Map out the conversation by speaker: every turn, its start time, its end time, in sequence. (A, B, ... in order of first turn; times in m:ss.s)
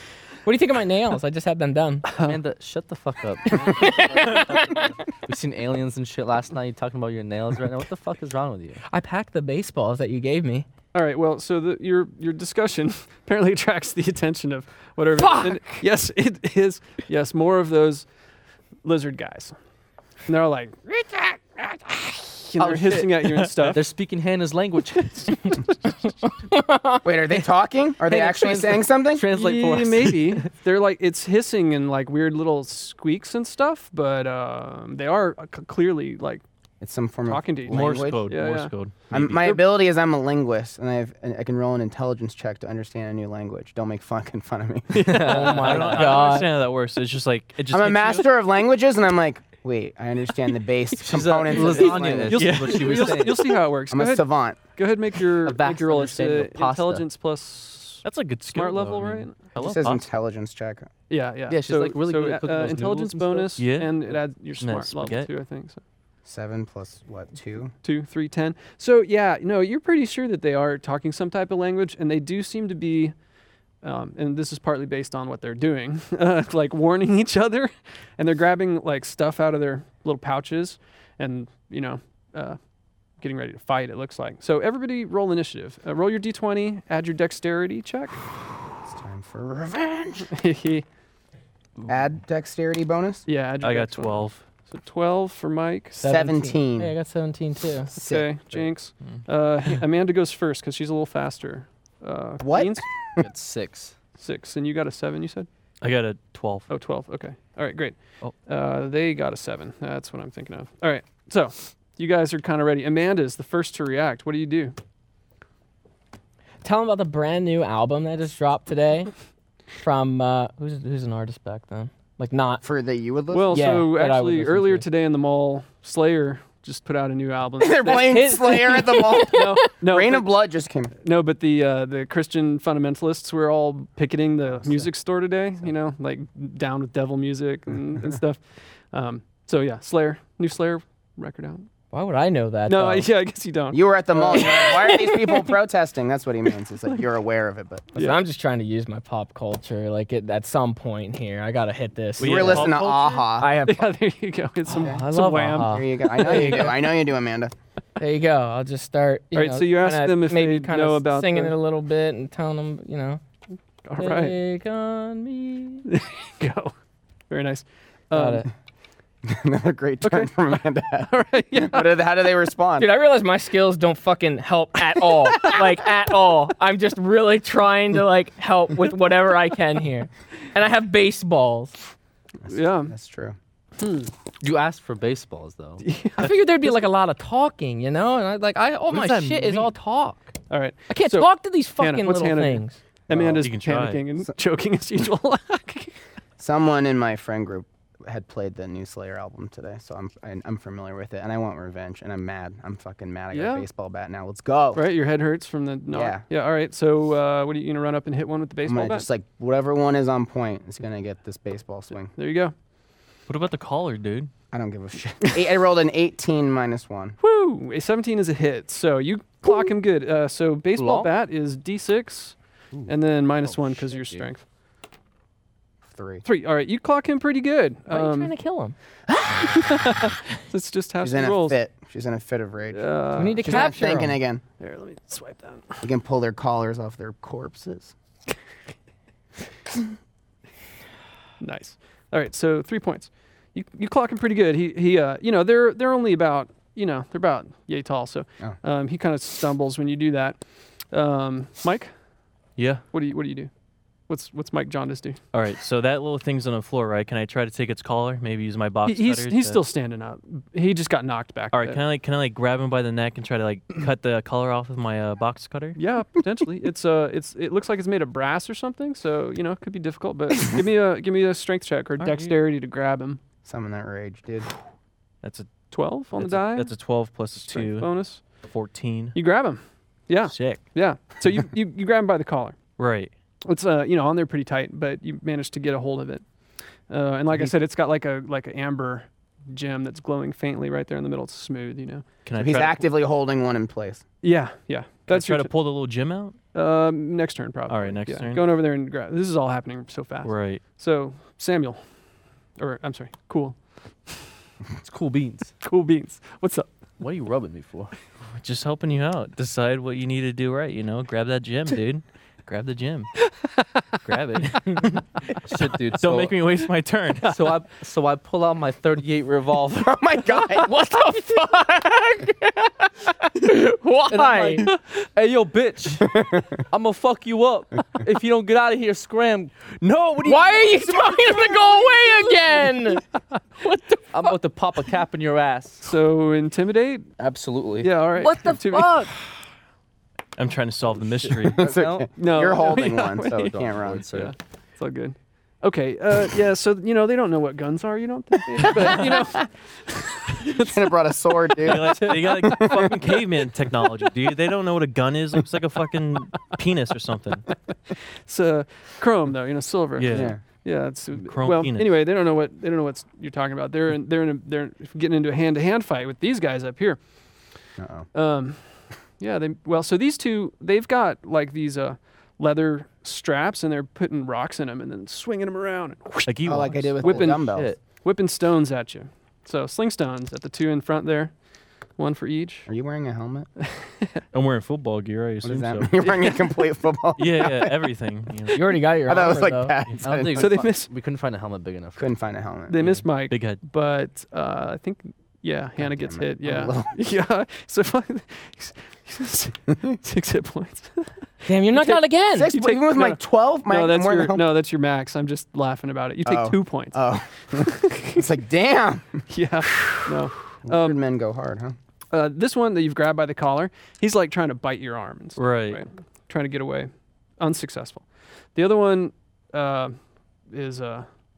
0:00.4-0:02.1 A
0:02.1-0:02.4 B
0:02.2-0:08.8 C
0:03.6-0:04.8 A
0:08.9-0:10.7 A
0:10.9-0:18.1 B
0:15.2-0:15.8 A
0:18.8-0:19.6 B
0:20.3-0:23.8 B
0:22.6-0:25.4 C
0:26.5-0:27.1 A
0:27.0-0:29.3 D
0:28.1-0:30.5 C
0:29.3-0:36.4 B
0:36.8-0:38.3 D
0:37.3-0:38.7 B
0:37.7-0:39.6 E
0:39.1-0:45.4 D
0:39.4-0:39.6 B
0:44.9-0:46.2 C
0:45.1-0:46.5 A
0:45.1-0:45.6 B
0:45.6-0:48.3 E
0:47.7-0:52.6 D
0:51.0-0:53.5 C
0:51.6-0:59.5 B
0:52.3-0:53.2 E
0:53.9-0:54.6 D
0:55.4-0:57.0 C
0:58.0-1:00.0 E
0:59.6-1:00.9 D
1:01.1-1:05.8 B
1:01.5-1:03.6 C
1:03.6-1:03.9 E
1:04.6-1:05.3 E
1:06.3-1:07.7 D
1:07.8-1:13.2 B
1:13.8-1:22.6 B
1:23.2-1:28.2 B
1:28.9-1:30.3 D
1:30.3-1:30.8 B
1:31.9-1:33.3 D
1:33.3-1:36.0 B
1:33.6-1:34.4 E
1:36.0-1:37.9 A
1:36.0-1:36.9 D
1:37.9-1:38.7 D
1:38.0-1:42.8 B
1:42.4-1:43.3 D
1:43.2-1:44.0 C
1:44.2-1:45.5 B
1:45.8-1:46.7 E
1:46.7-1:54.8 B
1:56.6-1:59.1 A
1:59.8-2:02.6 A
2:02.6-2:03.8 D
2:03.3-2:08.3 B
2:03.5-2:04.9 A
2:07.6-2:11.0 D
2:07.8-2:09.7 A
2:09.2-2:10.4 B
2:11.0-2:21.7 B
2:21.9-2:23.1 A
2:22.7-2:25.1 B
2:23.7-2:27.9 D
2:24.3-2:25.5 A
2:28.0-2:32.8 A
2:32.2-2:33.3 E
2:32.2-2:33.5 D
2:33.4-2:33.9 A
2:33.6-2:36.8 B
2:34.7-2:35.0 D
2:34.8-2:36.8 A
2:35.1-2:35.4 E
2:35.7-2:37.5 D
2:38.0-2:43.2 A
2:39.3-2:41.6 B
2:43.8-2:44.4 B
2:44.0-2:45.9 A
2:45.9-2:46.7 B
2:47.3-2:48.5 B
2:48.1-2:48.5 A
2:49.3-2:52.9 D
2:50.0-2:50.3 B
2:51.1-2:52.0 B
2:52.8-3:01.8 A
3:02.4-3:03.4 D
3:02.5-3:02.9 B
3:03.8-3:04.1 B
3:04.4-3:05.8 C
3:05.8-3:06.4 B
3:06.2-3:10.3 A
3:08.9-3:09.7 E
3:10.5-3:16.0 B
3:10.9-3:12.8 A
3:13.1-3:13.5 D
3:13.4-3:14.0 E
3:16.4-3:24.9 D
3:23.3-3:23.7 B
3:24.8-3:29.1 B
3:25.9-3:26.2 D
3:28.7-3:32.1 D
3:32.2-3:32.5 B
3:33.3-3:34.3 E
3:34.5-3:37.2 D
3:37.2-3:44.4 B
3:40.8-3:41.1 C
3:43.4-3:44.3 C
3:45.9-3:46.2 D
3:46.2-3:48.3 B
3:47.9-3:48.8 A
3:49.1-3:49.5 D
3:49.4-3:51.6 B
3:51.0-3:54.4 D
3:52.7-3:53.8 B
3:53.2-3:54.2 A
3:54.6-3:55.9 B
3:55.8-3:57.9 D
4:01.4-4:11.9 B
4:12.6-4:12.8 E
4:12.9-4:13.5 B
4:14.1-4:15.2 B
4:15.3-4:19.6 E
4:18.8-4:21.8 B
4:21.5-4:25.8 E
4:25.8-4:33.2 B
4:32.0-4:32.3 E
4:33.4-4:34.5 D
4:35.2-4:39.2 E
4:35.7-4:36.8 B
4:37.3-4:38.2 B
4:39.2-4:42.6 B
4:40.3-4:40.7 E
4:42.8-4:43.1 E
4:43.4-4:46.3 B
4:46.9-4:52.0 B
4:52.2-4:52.9 E
4:52.4-4:54.0 D
4:54.2-4:55.5 B
4:55.1-4:56.4 E
4:56.5-5:01.8 B
4:57.7-4:58.4 E
5:00.2-5:00.6 E
5:02.6-5:04.2 B
5:04.8-5:05.5 C
5:05.6-5:06.7 B
5:07.0-5:07.9 C
5:08.3-5:13.1 E
5:14.0-5:15.0 E
5:15.5-5:16.4 C
5:16.0-5:17.4 E
5:17.2-5:20.0 C
5:19.8-5:20.7 D
5:20.6-5:24.6 A
5:24.1-5:26.1 C
5:26.1-5:26.5 D
5:26.7-5:29.7 C
5:29.8-5:31.2 E
5:30.2-5:33.1 A
5:33.6-5:34.3 A
5:34.1-5:35.9 C
5:35.8-5:37.1 B
5:37.2-5:37.9 C
5:37.8-5:39.0 B
5:38.2-5:39.1 A
5:40.4-5:41.7 E
5:41.0-5:42.1 C
5:41.6-5:44.1 D
5:42.2-5:43.5 B
5:43.3-5:44.3 C
5:44.1-5:50.9 B
5:50.5-5:52.9 D
5:51.6-5:57.5 E
5:51.6-5:52.6 B
5:57.9-6:07.0 B
6:00.0-6:00.5 E
6:00.1-6:00.4 D
6:01.2-6:01.9 E
6:07.8-6:08.1 D
6:08.1-6:21.3 B
6:16.3-6:17.0 E
6:16.5-6:17.8 D
6:17.0-6:17.8 C
6:22.0-6:22.7 B
6:22.7-6:23.5 D
6:23.6-6:24.2 B
6:24.3-6:26.2 E
6:25.4-6:27.8 D
6:27.2-6:28.6 E
6:28.5-6:29.8 A
6:29.1-6:30.6 D
6:30.0-6:32.1 C
6:30.3-6:30.9 B
6:32.0-6:33.0 D
6:32.7-6:41.1 B
6:33.3-6:33.6 E
6:35.8-6:37.0 D
6:41.5-6:42.5 A
6:42.4-6:44.5 D
6:42.5-6:47.0 B
6:46.2-6:51.8 D
6:47.6-6:48.2 B
6:49.3-6:51.0 B
6:52.1-7:01.1 B
6:55.4-6:55.8 E